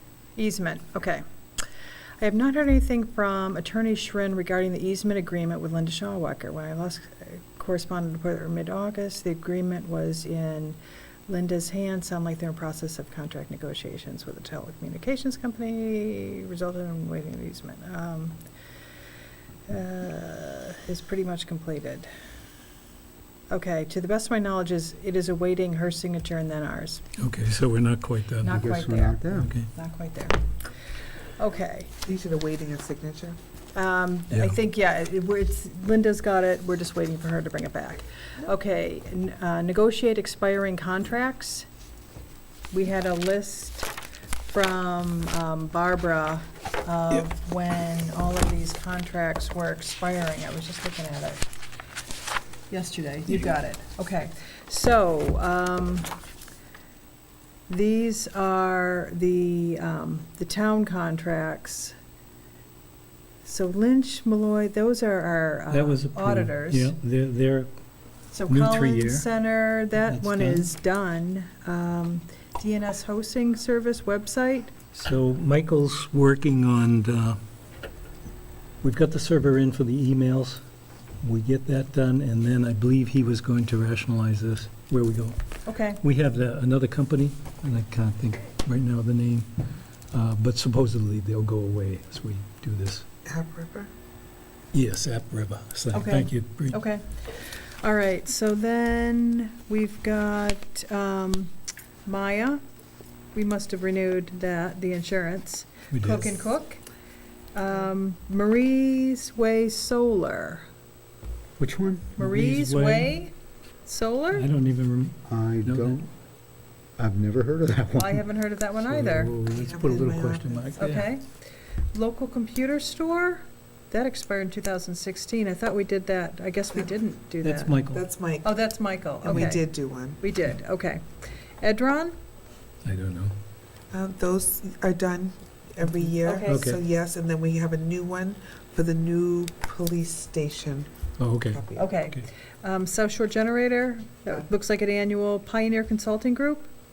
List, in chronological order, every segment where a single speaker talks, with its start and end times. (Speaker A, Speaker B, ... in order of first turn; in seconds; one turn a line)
Speaker A: 0.3-1.2
Speaker A: 2.2-18.4
Speaker A: 19.7-22.1
Speaker A: 23.5-27.0
Speaker B: 27.2-28.6
Speaker A: 28.4-29.2
Speaker C: 28.5-29.5
Speaker B: 29.3-29.7
Speaker A: 29.7-30.4
Speaker A: 31.4-31.9
Speaker D: 32.0-33.4
Speaker A: 33.7-41.6
Speaker B: 34.3-34.5
Speaker A: 42.7-51.4
Speaker A: 52.7-56.1
Speaker A: 57.7-62.0
Speaker A: 63.4-66.9
Speaker B: 65.7-67.7
Speaker A: 68.3-74.9
Speaker B: 68.5-69.2
Speaker B: 70.0-70.7
Speaker B: 75.0-77.4
Speaker B: 78.8-80.6
Speaker B: 81.2-85.4
Speaker A: 85.7-86.0
Speaker B: 86.0-89.5
Speaker B: 90.1-93.0
Speaker D: 93.2-93.9
Speaker B: 94.7-96.8
Speaker A: 95.9-101.5
Speaker A: 102.0-102.6
Speaker A: 103.3-106.8
Speaker B: 105.9-106.3
Speaker A: 107.5-110.7
Speaker C: 111.6-112.2
Speaker B: 112.2-113.1
Speaker A: 112.2-113.3
Speaker A: 113.8-114.5
Speaker B: 114.3-116.0
Speaker C: 115.3-116.1
Speaker C: 117.0-118.2
Speaker A: 117.9-119.3
Speaker B: 118.9-121.1
Speaker D: 119.4-121.0
Speaker A: 120.8-121.2
Speaker A: 121.9-127.8
Speaker B: 127.4-128.0
Speaker D: 127.9-128.5
Speaker A: 128.4-132.1
Speaker D: 129.2-130.2
Speaker B: 132.8-133.3
Speaker D: 133.9-140.9
Speaker A: 136.2-136.7
Speaker B: 136.4-136.8
Speaker B: 141.2-142.2
Speaker D: 141.5-141.9
Speaker A: 141.7-146.7